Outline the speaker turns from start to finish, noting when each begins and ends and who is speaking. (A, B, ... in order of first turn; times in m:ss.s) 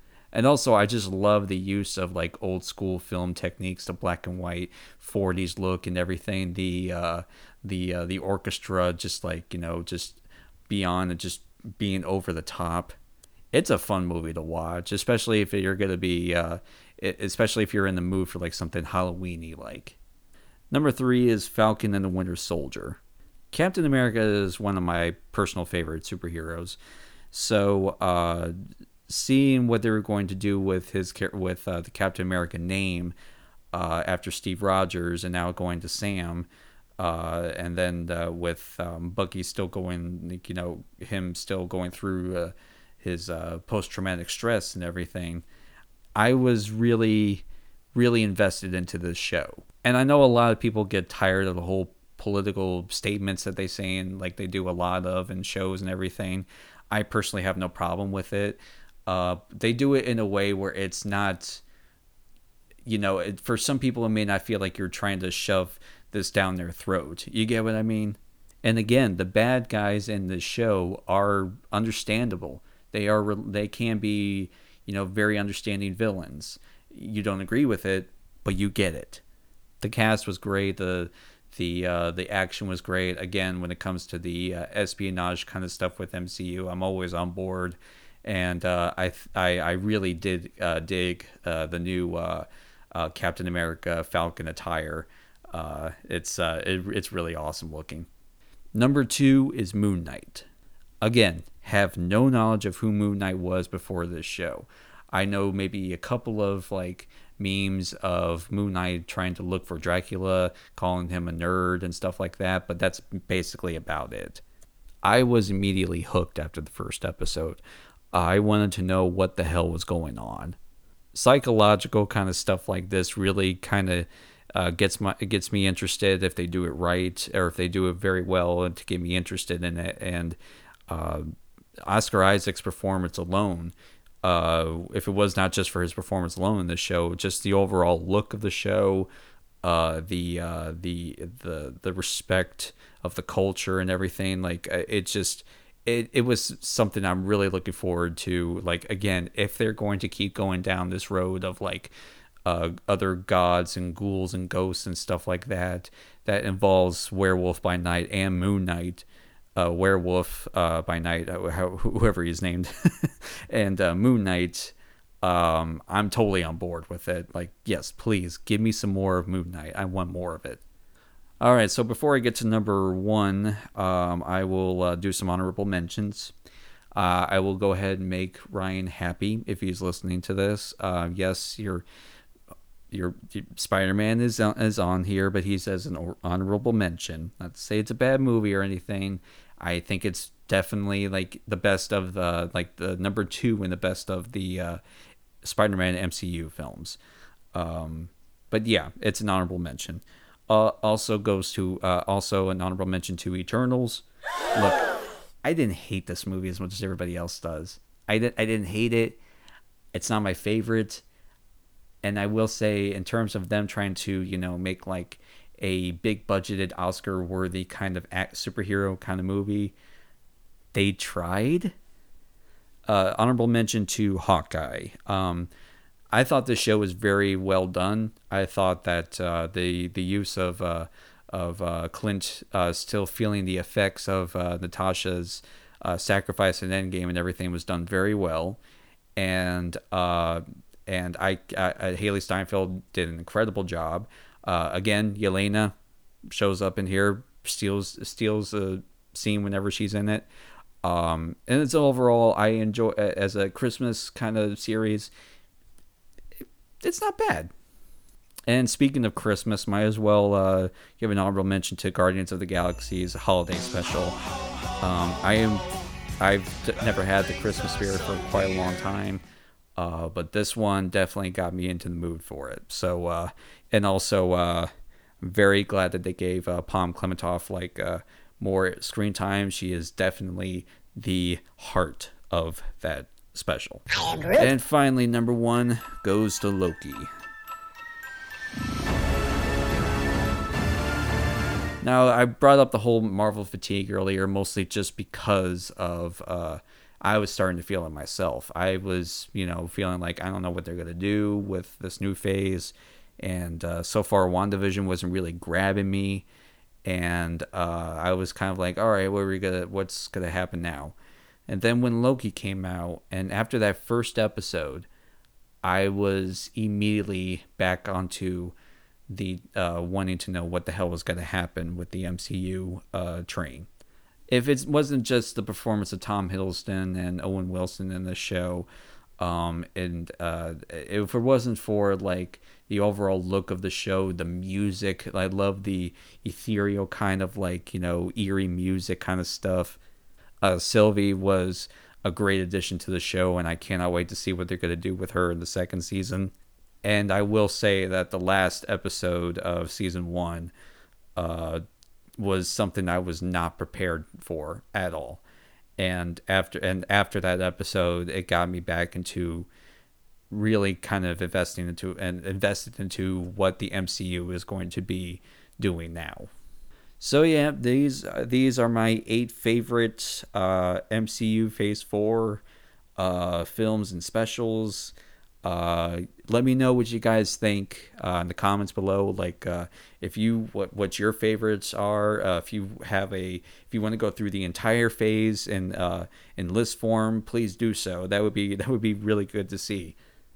0:00.3-0:12.9 A
0:13.5-0:20.0 A
0:20.7-0:23.0 A
0:23.5-0:26.8 A
0:27.3-0:28.5 A
0:29.1-0:33.1 A
0:33.7-0:36.5 A
0:37.0-0:45.4 A
0:46.2-1:01.6 A
1:02.8-1:19.2 A
1:19.8-1:38.1 A
1:38.7-1:40.4 A
1:41.0-1:54.4 A
1:55.0-1:57.6 A
1:58.1-2:00.6 A
2:01.1-2:10.4 A
2:10.9-2:11.3 A
2:11.8-2:19.1 A
2:19.6-2:31.9 A
2:32.4-2:39.0 A
2:39.6-2:50.6 A
2:51.4-2:56.3 A
2:56.9-3:01.8 A
3:02.9-3:14.8 A
3:15.4-3:17.0 A
3:17.5-3:24.0 A
3:24.5-3:24.9 A
3:25.4-3:29.2 A
3:29.9-3:31.0 A
3:32.0-3:39.7 A
3:40.7-3:41.7 A
3:42.9-3:45.5 A
3:46.1-3:58.6 A
3:59.2-4:05.7 A
4:06.3-4:10.3 A
4:10.8-4:15.1 A
4:16.8-4:17.5 A
4:18.5-4:24.2 A
4:24.8-4:25.6 A
4:26.2-4:29.2 A
4:29.8-4:34.7 A
4:35.2-4:47.1 A
4:51.8-5:06.2 A
5:06.8-5:10.9 A
5:11.5-5:14.9 A
5:15.6-5:18.5 A
5:19.1-5:23.7 A
5:24.3-5:28.7 A
5:29.2-5:39.8 A
5:40.4-5:46.3 A
5:46.8-5:50.5 A
5:51.2-5:51.6 A
5:52.2-5:55.2 A
5:55.8-5:59.5 A
6:00.3-6:06.3 A
6:07.0-6:12.4 A
6:13.0-6:30.0 A